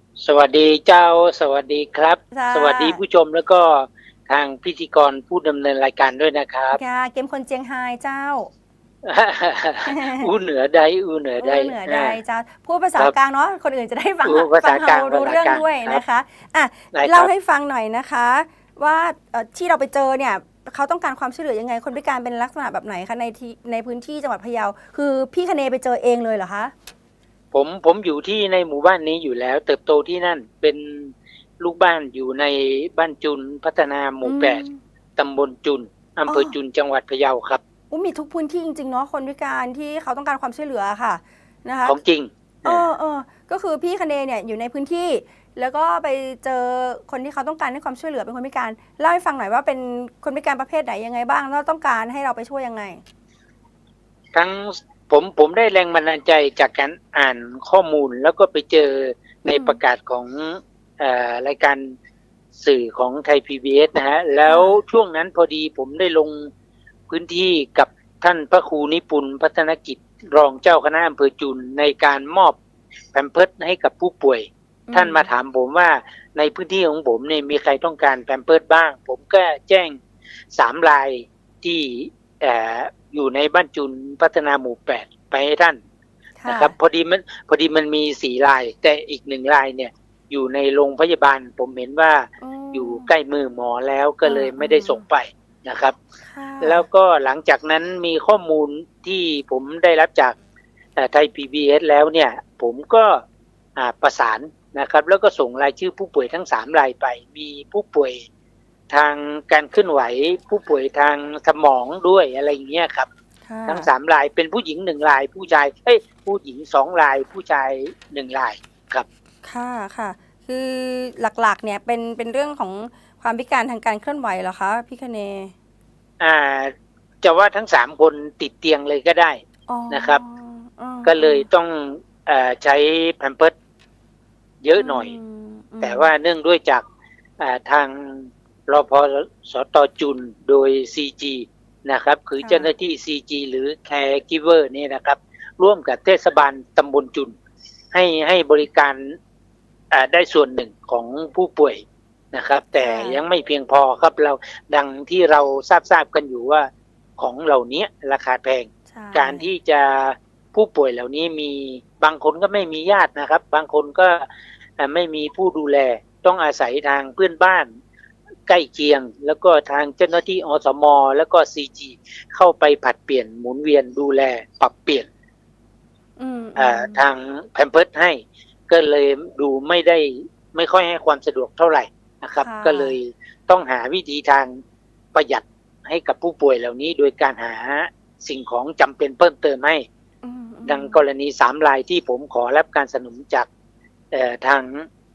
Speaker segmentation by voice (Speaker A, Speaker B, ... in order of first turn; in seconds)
Speaker A: 0.2-6.8, 9.0-12.2, 14.2-16.0, 16.9-17.3, 27.5-34.6, 35.1-37.6, 41.8-42.8, 54.3-61.9, 62.5-66.5, 67.1-72.6, 73.1-80.0, 80.5-85.8, 86.5-96.0, 96.6-100.4, 101.0-103.2, 103.8-108.2, 108.9-113.1, 113.7-119.0, 126.2-129.4, 129.9-130.2, 131.0-133.5, 134.6-135.1, 135.8-136.8, 137.4-147.3, 147.9-149.1, 149.9-151.8, 152.3-164.3, 164.8-167.7, 168.5-175.1, 176.6-184.6, 185.1-189.8, 190.7-193.5, 194.1-194.8
Speaker B: 2.3-3.0, 6.7-8.5, 9.8-10.3, 11.4-26.7, 34.2-34.8, 36.3-36.6, 37.9-42.0, 42.6-53.0, 59.5-59.8, 64.5-64.8, 74.9-75.3, 86.4-86.7, 92.4-93.1, 94.2-95.0, 96.2-96.8, 113.5-113.9, 119.4-125.5, 129.7-131.5, 134.8-136.1, 142.4-142.7, 152.8-153.2, 158.9-159.5, 176.2-177.1, 182.4-183.0, 190.2-191.0